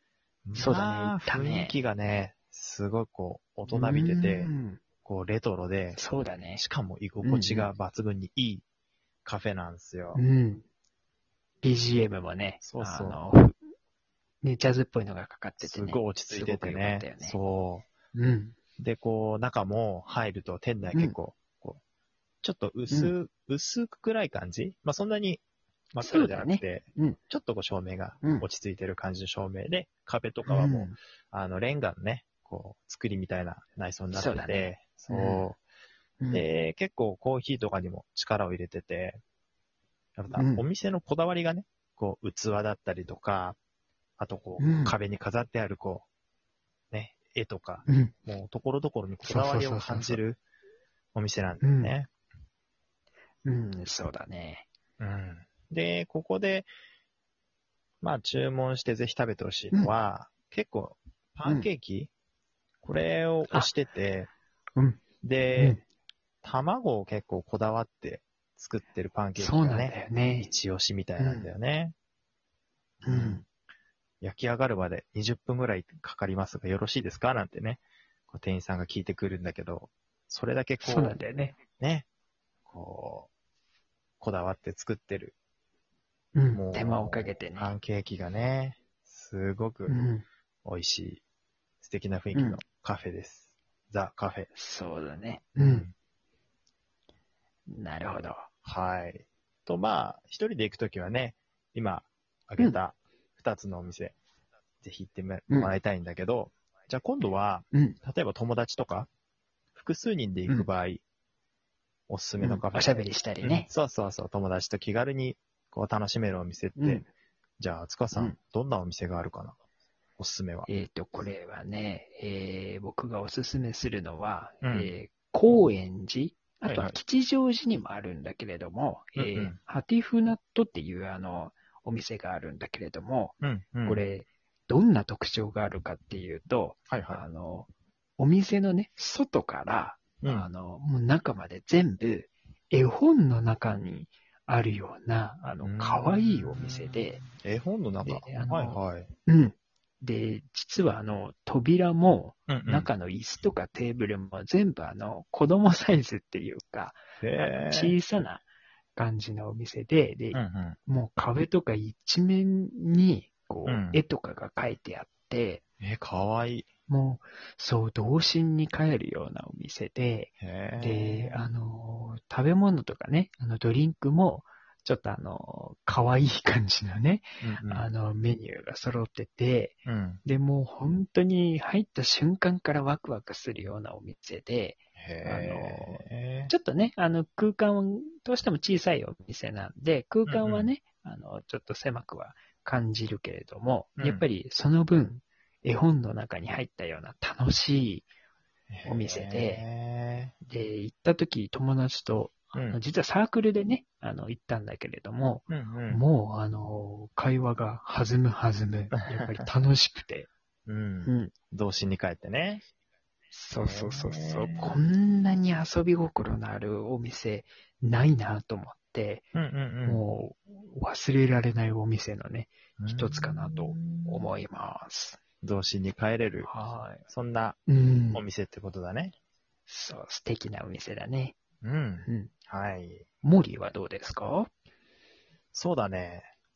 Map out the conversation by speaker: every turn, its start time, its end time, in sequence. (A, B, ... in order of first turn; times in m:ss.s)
0:00.4-0:04.5 A
0:00.6-0:01.7 B
0:03.7-0:04.8 B
0:05.0-0:06.0 A
0:05.9-0:06.6 B
0:06.5-0:08.6 A
0:07.2-0:07.7 B
0:09.2-0:10.2 A
0:10.1-0:10.6 B
0:11.6-0:13.6 B
0:12.6-0:13.2 A
0:14.4-0:17.4 B
0:15.6-0:17.9 A
0:18.1-0:18.5 B
0:18.8-0:21.8 A
0:22.4-0:25.4 A
0:22.9-0:23.1 B
0:25.9-0:35.6 A
0:26.0-0:27.2 B
0:30.4-0:31.0 B
0:34.1-0:35.4 B
0:36.2-0:36.4 B
0:36.3-0:39.2 A
0:40.2-0:43.6 A
0:40.3-0:40.6 B
0:44.2-0:46.1 A
0:44.6-0:44.9 B
0:46.9-0:50.4 A
0:47.9-0:48.1 B
0:49.2-0:50.2 B
0:51.1-0:52.1 A
0:51.6-0:51.9 B
0:53.4-0:54.6 B
0:55.0-0:56.7 A
0:58.0-1:02.1 A
1:02.8-1:04.3 A
1:05.2-1:05.8 A
1:05.6-1:05.8 B
1:06.4-1:11.9 A
1:09.4-1:10.5 B
1:11.2-1:11.5 B
1:13.0-1:13.4 A
1:13.0-1:13.4 B
1:14.2-1:21.2 A
1:20.8-1:21.6 B
1:21.8-1:22.0 A
1:22.7-1:23.3 A
1:24.2-1:25.3 A
1:26.3-1:27.7 B
1:26.5-1:30.0 A
1:29.9-1:30.2 B
1:30.6-1:31.2 A
1:31.8-1:34.5 A
1:32.3-1:32.6 B
1:34.5-1:35.8 B
1:35.6-1:35.9 A
1:37.7-1:38.5 B
1:38.6-1:44.2 A
1:44.8-1:49.1 A
1:49.7-1:51.0 A
1:52.1-1:57.0 A
1:52.4-1:53.7 B
1:56.8-1:57.1 B
1:57.6-1:59.6 A
2:00.2-2:00.7 A
2:00.7-2:27.2 B
2:04.6-2:04.9 A
2:06.6-2:07.0 A
2:09.2-2:09.6 A
2:13.4-2:14.0 A
2:16.9-2:17.2 A
2:20.2-2:20.5 A
2:25.6-2:29.1 A
2:28.0-2:38.4 B
2:32.5-2:32.9 A
2:37.2-2:38.0 A
2:39.0-2:45.6 B
2:40.3-2:40.8 A
2:43.6-2:44.0 A
2:45.8-2:46.7 A
2:46.9-3:18.1 B
2:50.4-2:51.4 A
2:57.4-2:57.9 A
2:59.8-3:00.2 A
3:05.0-3:06.5 A
3:10.2-3:10.7 A
3:14.0-3:14.2 A
3:18.7-3:20.3 A
3:18.8-3:19.6 B
3:20.4-3:30.3 B
3:22.5-3:22.8 A
3:25.5-3:26.0 A
3:28.9-3:29.5 A
3:30.6-3:32.6 A
3:31.0-3:31.3 B
3:33.3-3:39.2 B
3:33.6-3:34.8 A
3:39.3-3:40.0 A
3:39.8-3:45.2 B
3:42.8-3:44.3 A
3:45.4-3:46.5 A
3:46.4-3:47.0 B
3:47.1-3:47.6 A
3:47.7-3:48.2 B
3:48.1-3:49.1 A
3:49.7-3:51.4 B
3:51.6-3:53.0 A
3:52.0-3:52.3 B
3:53.2-3:54.5 B
3:55.5-3:56.3 A